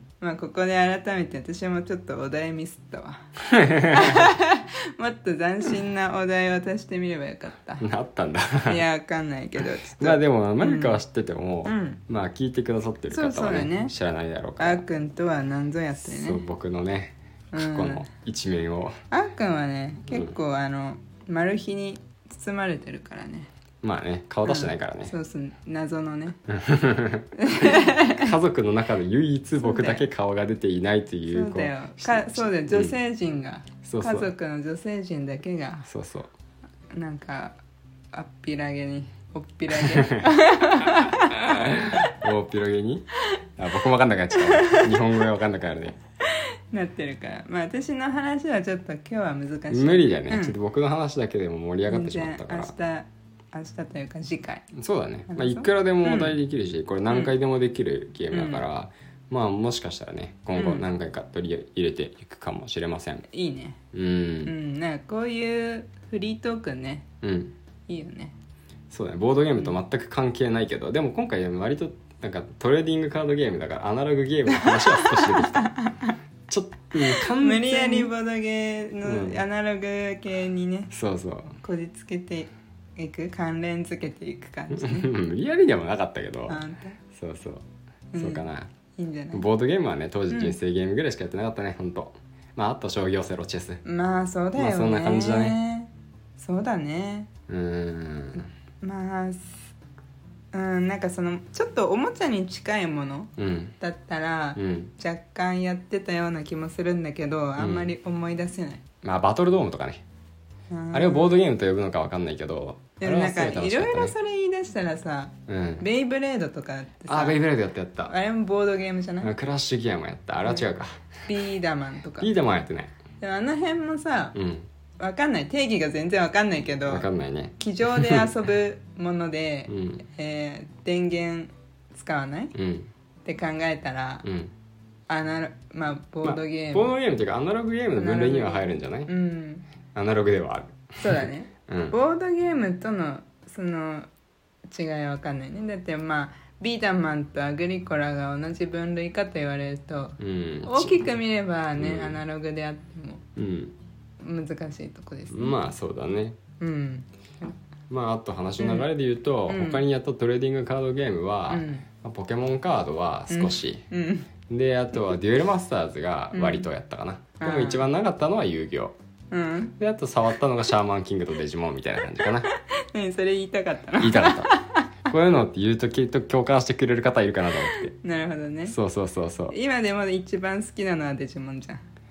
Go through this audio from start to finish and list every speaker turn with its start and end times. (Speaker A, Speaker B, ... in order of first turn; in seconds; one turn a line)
Speaker A: 0.2-3.3
Speaker B: 3.5-4.3
Speaker A: 3.9-7.9
Speaker B: 7.8-8.8
Speaker A: 8.7-11.0
Speaker B: 10.0-14.8
Speaker A: 11.7-12.0
Speaker A: 13.1-13.9
Speaker A: 14.6-16.4
Speaker B: 16.1-19.0
Speaker A: 17.5-18.1
Speaker A: 19.1-23.5
Speaker B: 20.1-20.3
Speaker B: 23.8-25.1
Speaker A: 24.4-26.4
Speaker B: 26.5-33.0
Speaker A: 27.4-28.4
Speaker A: 29.6-30.0
Speaker A: 31.3-35.9
Speaker B: 33.9-34.3
Speaker B: 35.9-36.3
Speaker A: 36.9-37.6
Speaker A: 38.1-42.1
Speaker B: 39.7-40.2
Speaker B: 41.0-43.1
Speaker B: 43.6-46.0
Speaker A: 44.4-45.0
Speaker A: 46.7-50.5
Speaker B: 49.7-52.7
Speaker A: 51.9-54.6
Speaker B: 54.7-63.3
Speaker A: 55.3-56.4
Speaker A: 58.3-58.6
Speaker A: 60.6-60.9
Speaker A: 63.3-63.8
Speaker B: 63.9-64.5
Speaker A: 64.4-67.1
Speaker B: 67.2-67.5
Speaker A: 67.9-68.3
Speaker B: 68.9-75.7
Speaker A: 74.5-76.2
Speaker B: 76.5-78.1
Speaker A: 77.1-80.9
Speaker B: 79.0-79.4
Speaker B: 80.9-81.6
Speaker A: 81.6-85.1
Speaker B: 84.7-86.6
Speaker A: 86.5-87.0
Speaker B: 87.1-87.6
Speaker A: 88.1-89.5
Speaker B: 88.2-88.7
Speaker B: 89.3-93.8
Speaker A: 90.3-90.6
Speaker A: 93.8-97.3
Speaker B: 94.6-95.6
Speaker B: 97.5-98.5
Speaker A: 98.8-99.6
Speaker A: 100.5-108.8
Speaker B: 103.4-103.8
Speaker B: 104.6-104.9
Speaker B: 107.6-107.9
Speaker B: 109.0-110.0
Speaker A: 110.7-111.4
Speaker B: 110.9-114.2
Speaker A: 113.0-117.4
Speaker B: 115.5-115.8
Speaker B: 117.1-118.1
Speaker A: 118.1-119.3
Speaker B: 119.2-121.1
Speaker A: 121.3-122.3
Speaker B: 122.2-122.9
Speaker A: 123.2-124.4
Speaker B: 124.3-124.7
Speaker A: 125.0-127.1
Speaker B: 126.9-128.2
Speaker A: 127.6-132.5
Speaker B: 129.7-130.0
Speaker B: 132.6-132.9
Speaker A: 133.2-134.2
Speaker B: 134.2-134.5
Speaker A: 135.1-136.9
Speaker B: 136.2-139.1
Speaker A: 138.0-139.7
Speaker B: 139.9-142.0
Speaker A: 141.0-144.1
Speaker A: 144.7-153.2
Speaker B: 150.2-151.1
Speaker B: 151.8-152.2
Speaker B: 153.4-153.8
Speaker A: 154.2-155.6
Speaker B: 155.3-156.4
Speaker A: 156.6-157.6
Speaker B: 157.9-163.8
Speaker A: 158.6-158.9
Speaker A: 159.5-159.8
Speaker A: 161.5-161.8
Speaker A: 163.3-164.3
Speaker B: 164.5-168.9
Speaker A: 166.3-166.7
Speaker A: 167.4-167.8
Speaker A: 169.3-169.8
Speaker B: 169.8-172.5
Speaker A: 172.3-174.9
Speaker B: 174.0-174.5
Speaker B: 175.1-177.9
Speaker A: 177.6-178.8
Speaker B: 178.7-179.6
Speaker A: 179.5-181.8